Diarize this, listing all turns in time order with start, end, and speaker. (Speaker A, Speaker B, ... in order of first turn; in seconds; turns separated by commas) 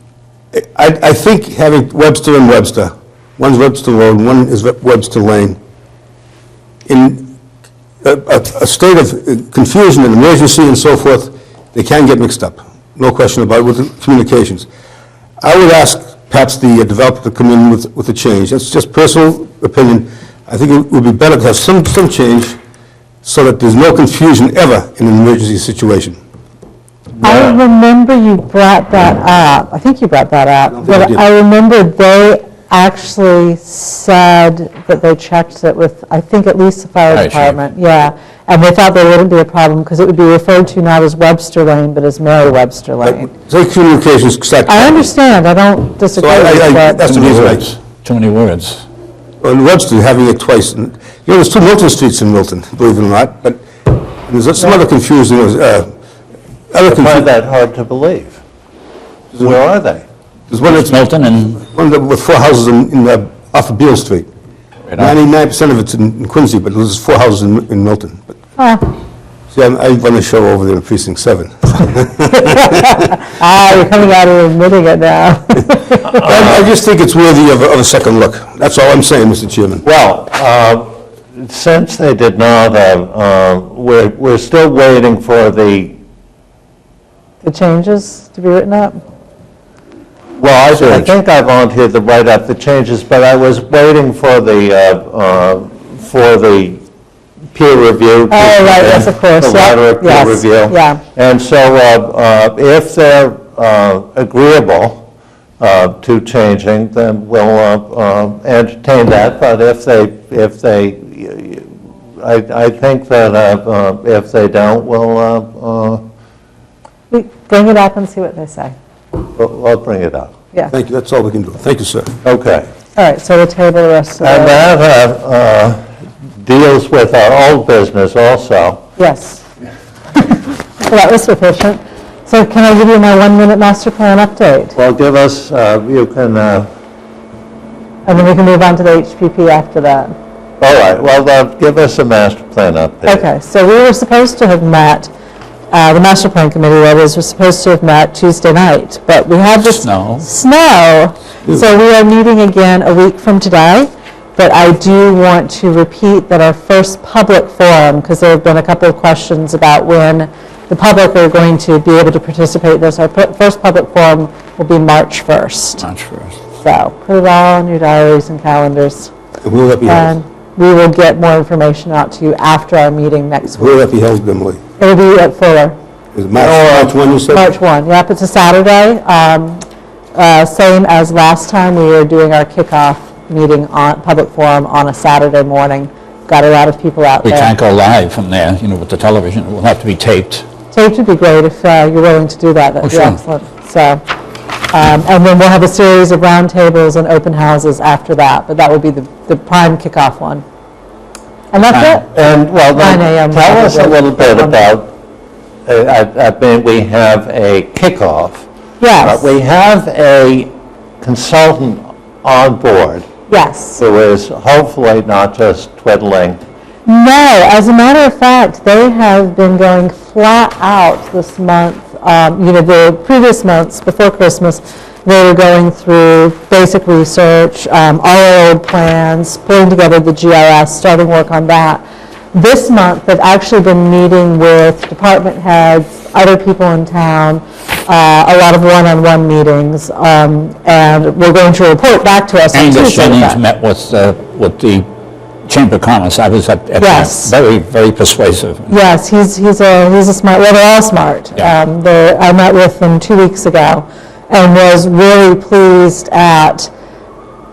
Speaker A: 0.5-5.6, Speaker A: 6.9-7.3, Speaker A: 8.0-14.7, Speaker A: 15.4-22.6, Speaker A: 23.2-26.2, Speaker B: 27.2-27.6, Speaker C: 27.2-43.3, Speaker A: 30.7-31.2, Speaker D: 37.1-37.6, Speaker A: 43.0-45.1, Speaker C: 44.7-47.1, Speaker A: 46.1-47.7, Speaker D: 47.0-48.8, Speaker A: 49.4-55.9, Speaker A: 56.7-57.3, Speaker B: 56.9-58.4, Speaker B: 59.4-60.0, Speaker A: 60.5-64.3, Speaker D: 60.6-61.6, Speaker A: 64.9-68.3, Speaker C: 68.6-68.8, Speaker A: 69.5-72.8, Speaker C: 72.4-76.2, Speaker A: 76.1-79.8, Speaker B: 76.3-76.6, Speaker B: 79.8-86.0, Speaker C: 87.4-89.0, Speaker B: 90.4-96.8, Speaker B: 97.5-105.0, Speaker C: 98.3-101.0, Speaker B: 105.6-116.0, Speaker C: 117.1-118.7, Speaker B: 119.2-120.3, Speaker A: 120.7-122.1, Speaker B: 122.2-122.7, Speaker C: 123.0-124.6, Speaker B: 124.2-125.8, Speaker B: 126.4-128.8, Speaker C: 129.0-129.4, Speaker C: 130.1-134.7, Speaker B: 134.7-136.7, Speaker C: 138.1-140.1, Speaker B: 140.6-143.3, Speaker C: 143.1-145.1, Speaker C: 145.7-165.9, Speaker D: 149.6-150.3, Speaker D: 165.8-166.3, Speaker C: 166.6-169.1, Speaker A: 169.4-170.2, Speaker C: 169.8-173.8, Speaker A: 173.5-174.6, Speaker C: 174.8-175.8, Speaker A: 176.1-177.5, Speaker B: 176.3-176.9, Speaker C: 177.3-179.6, Speaker C: 180.1-187.5, Speaker D: 187.2-190.4, Speaker C: 190.7-194.0, Speaker D: 192.8-193.2, Speaker C: 194.7-200.4, Speaker C: 201.5-202.1, Speaker D: 201.7-201.9, Speaker B: 202.1-204.9, Speaker C: 202.8-204.7, Speaker B: 205.7-208.4, Speaker C: 208.8-209.2, Speaker B: 209.0-213.1, Speaker C: 213.3-213.8, Speaker B: 213.8-216.4, Speaker C: 216.8-231.8, Speaker C: 232.3-243.4, Speaker D: 242.5-244.9, Speaker D: 245.4-248.7, Speaker C: 246.8-247.3, Speaker C: 248.7-256.7